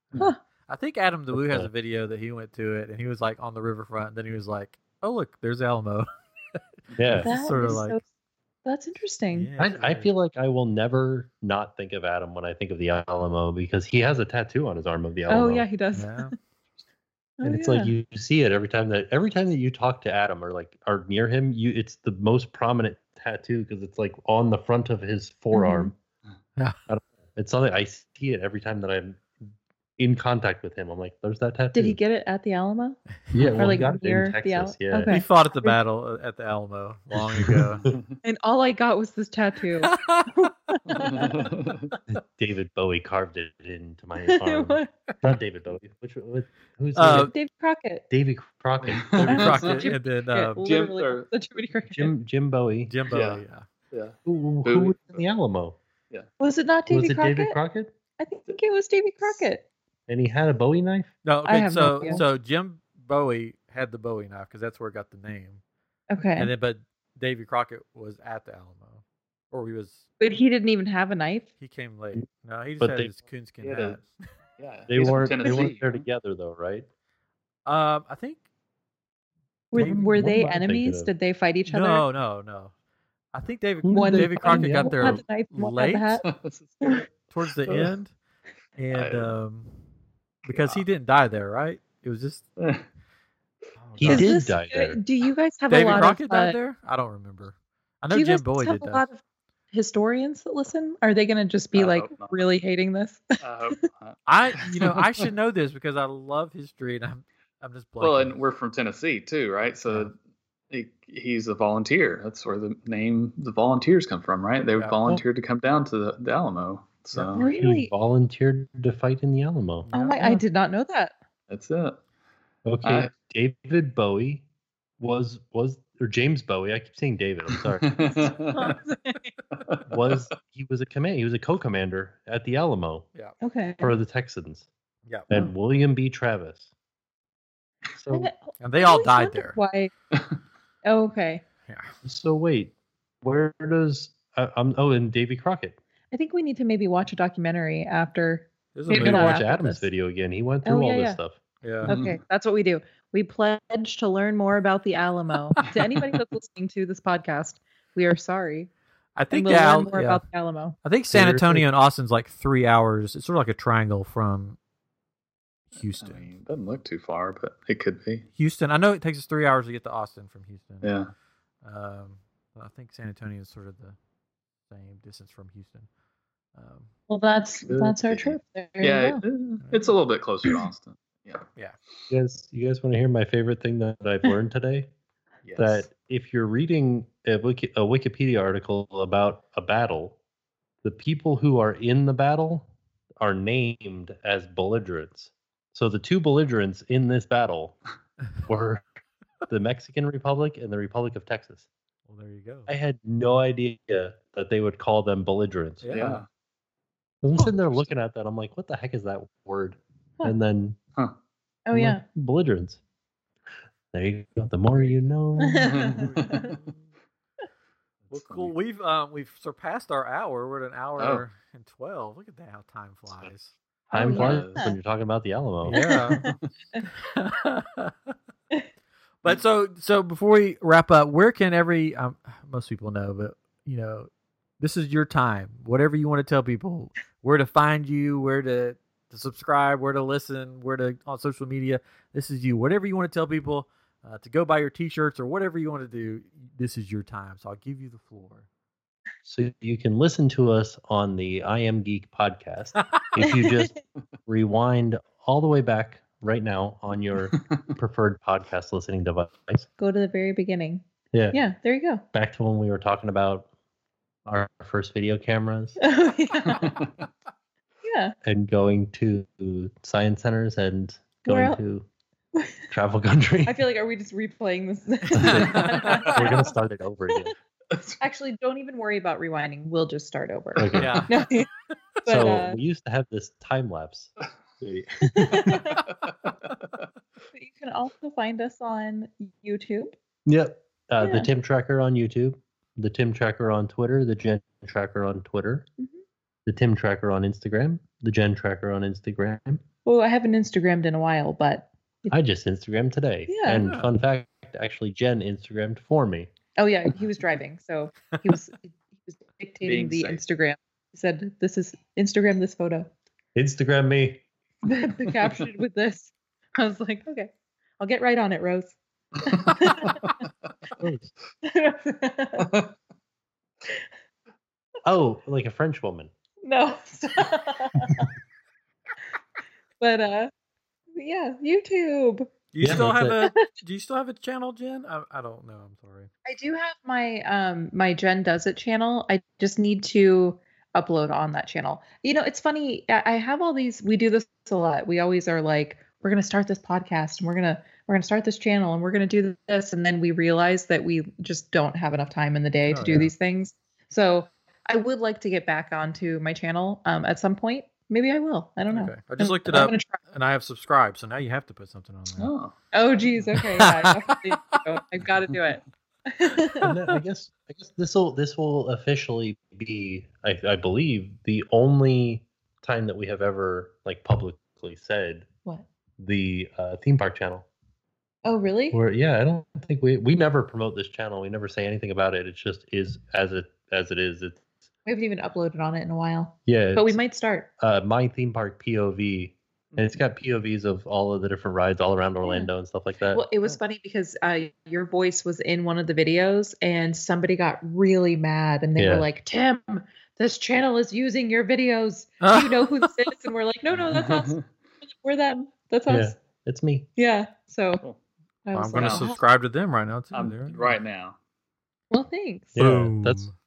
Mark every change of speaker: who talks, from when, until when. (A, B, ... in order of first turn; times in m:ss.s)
0:00.7-0:06.6 A
0:01.3-0:01.7 B
0:06.9-0:07.2 C
0:07.0-0:07.3 B
0:07.1-0:08.0 A
0:07.2-0:08.0 D
0:08.6-0:09.5 D
0:09.3-0:10.1 A
0:09.6-0:15.7 B
0:15.3-0:16.3 D
0:15.9-0:16.3 A
0:17.4-0:17.9 D
0:17.4-0:26.0 B
0:25.5-0:25.9 D
0:26.9-0:29.4 B
0:30.0-0:32.0 B
0:31.7-0:33.0 D
0:33.3-0:35.1 B
0:33.4-0:33.8 A
0:33.6-0:35.8 D
0:35.1-0:37.9 A
0:37.2-0:37.9 B
0:37.9-0:38.2 C
0:38.2-0:41.3 D
0:39.8-0:40.4 A
0:40.9-0:41.9 C
0:42.1-0:47.3 B
0:44.3-0:44.9 D
0:47.0-0:47.3 A
0:47.1-0:48.1 D
0:48.1-0:49.5 B
0:48.8-0:49.9 C
0:49.1-0:50.6 A
0:49.3-0:52.1 D
0:50.6-0:51.3 C
0:51.9-0:52.9 B
0:52.9-0:53.7 A
0:53.1-0:55.2 C
0:54.3-0:55.8 B
0:56.4-0:57.6 D
0:56.9-0:57.9 B
0:58.2-0:59.7 D
1:00.1-1:01.1 B
1:01.2-1:05.6 A
1:01.5-1:02.2 D
1:06.1-1:06.5 D
1:06.4-1:10.0 A
1:10.2-1:11.5 D
1:11.6-1:14.2 A
1:12.8-1:13.1 B
1:13.6-1:14.0 C
1:14.6-1:16.0 C
1:14.9-1:16.9 B
1:15.4-1:15.7 D
1:17.7-1:18.4 A
1:19.7-1:22.0 D
1:19.7-1:21.1 B
1:21.7-1:22.7 A
1:23.3-1:26.2 A
1:23.8-1:25.2 B
1:23.9-1:26.3 D
1:26.3-1:27.1 C
1:27.3-1:28.1 A
1:27.7-1:27.9 C
1:28.8-1:29.8 A
1:28.9-1:29.4 C
1:30.5-1:32.4 A
1:30.5-1:30.8 C
1:32.6-1:32.8 C
1:33.8-1:34.3 A
1:34.0-1:35.0 B
1:34.0-1:36.6 D
1:35.7-1:39.1 A
1:38.1-1:43.4 D
1:41.7-1:42.4 C
1:43.4-1:45.3 C
1:44.3-1:48.4 A
1:48.0-1:50.1 C
1:50.7-1:57.5 C
1:57.4-1:57.9 D
1:57.6-1:59.9 B
1:59.9-2:00.4 A
1:59.9-2:01.2 D
2:01.5-2:02.0 C
2:02.6-2:04.4 B
2:02.8-2:03.1 C
2:05.0-2:07.9 B
2:07.6-2:08.8 C
2:08.5-2:09.3 D
2:09.5-2:10.2 C
2:09.9-2:13.1 B
2:13.4-2:14.0 D
2:13.8-2:14.7 B
2:15.3-2:16.7 B
2:18.0-2:18.3 B
2:18.1-2:19.9 D
2:18.6-2:19.6 A
2:20.8-2:21.4 D
2:21.7-2:22.0 A
2:22.0-2:25.8 B
2:26.1-2:29.9 D
2:28.7-2:29.4 A
2:28.9-2:31.4 B
2:30.6-2:31.2 D
2:31.6-2:31.9 A
2:31.8-2:32.2 C
2:31.9-2:38.7 D
2:39.2-2:40.2 A
2:39.3-2:40.8 D
2:40.8-2:44.6 A
2:41.1-2:41.7 B
2:45.7-2:46.3 A
2:45.9-2:48.3 C
2:48.4-2:50.9 A
2:50.8-2:51.1 C
2:51.6-2:54.0 A
2:54.7-2:55.9 A
2:56.6-2:56.9 A
2:57.1-2:59.2 D
2:57.6-2:58.4 B
2:58.8-3:01.5 C
2:59.6-2:59.9 A
3:02.1-3:04.9 B
3:05.4-3:05.8 C
3:05.6-3:10.2 B
3:10.8-3:17.8 B
3:18.5-3:18.8 B
3:19.5-3:21.7 B
3:22.1-3:22.7 A
3:22.7-3:26.2 B
3:25.8-3:26.2 A
3:25.9-3:26.3 C
3:27.2-3:30.8 B
3:27.4-3:27.9 A
3:31.7-3:32.0 D
3:31.7-3:32.8 B
3:33.9-3:36.0 B
3:35.4-3:36.5 D
3:35.6-3:36.6 C
3:36.0-3:36.9 A
3:38.1-3:38.5 C
3:38.1-3:43.5 A
3:43.9-3:45.8 B
3:43.9-3:44.8 D
3:44.0-3:44.7 C
3:45.7-3:46.3 A
3:45.8-3:46.8 D
3:46.2-3:46.4 C
3:46.9-3:48.1 A
3:49.2-4:08.5 A
4:09.2-4:19.7 B
4:13.2-4:13.8 D
4:17.3-4:17.6 C
4:19.8-4:22.0 D
4:21.1-4:21.4 B
4:22.1-4:23.5 B
4:24.3-4:25.8 B
4:25.8-4:26.8 D
4:26.4-4:27.1 C
4:27.8-4:28.2 D
4:28.2-4:31.9 B
4:31.2-4:31.6 D
4:32.4-4:32.7 D
4:32.7-4:33.7 B
4:33.4-4:36.5 D
4:35.1-4:37.4 B
4:35.2-4:36.1 A
4:37.7-4:38.0 C
4:38.0-4:41.5 D
4:40.6-4:41.1 B
4:40.7-4:41.2 A
4:42.1-4:42.6 D
4:42.1-4:45.7 B
4:45.0-4:45.8 D
4:47.3-4:50.0 D
4:50.3-4:55.7 B
4:51.0-4:51.3 D
4:56.5-4:59.6 B
4:59.8-5:02.2 D
5:02.1-5:06.3 B
5:03.3-5:03.7 D
5:06.6-5:12.9 D
5:09.6-5:10.2 C
5:13.4-5:14.2 B
5:14.6-5:20.2 D
5:19.3-5:20.1 C
5:20.8-5:21.1 B
5:21.4-5:22.6 D
5:22.4-5:22.7 C
5:24.8-5:26.1 B
5:26.4-5:28.1 D
5:29.8-5:30.3 D
5:31.0-5:33.3 D
5:32.5-5:36.1 A
5:32.6-5:33.2 B
5:36.2-6:00.0 D
5:52.7-5:53.1 A
5:58.7-6:02.3 A
6:02.2-6:02.5 C
6:02.7-6:06.8 D
6:03.3-6:04.3 A
6:06.6-6:15.3 B
6:16.0-6:17.5 B
6:18.2-6:18.8 D
6:18.7-6:24.5 B
6:24.9-6:27.5 D
6:26.5-6:27.0 B
6:27.6-6:33.3 B
6:32.2-6:32.5 D
6:33.1-6:46.2 D
6:38.8-6:39.1 B
6:42.2-6:43.0 A
6:43.7-6:44.5 C
6:45.9-6:46.9 B
6:47.0-6:47.8 D
6:48.5-6:49.2 D
6:48.5-6:50.8 A
6:48.8-6:49.1 C
6:50.1-6:51.2 C
6:51.9-6:52.6 D
6:52.6-6:53.2 B
6:52.6-6:53.3 A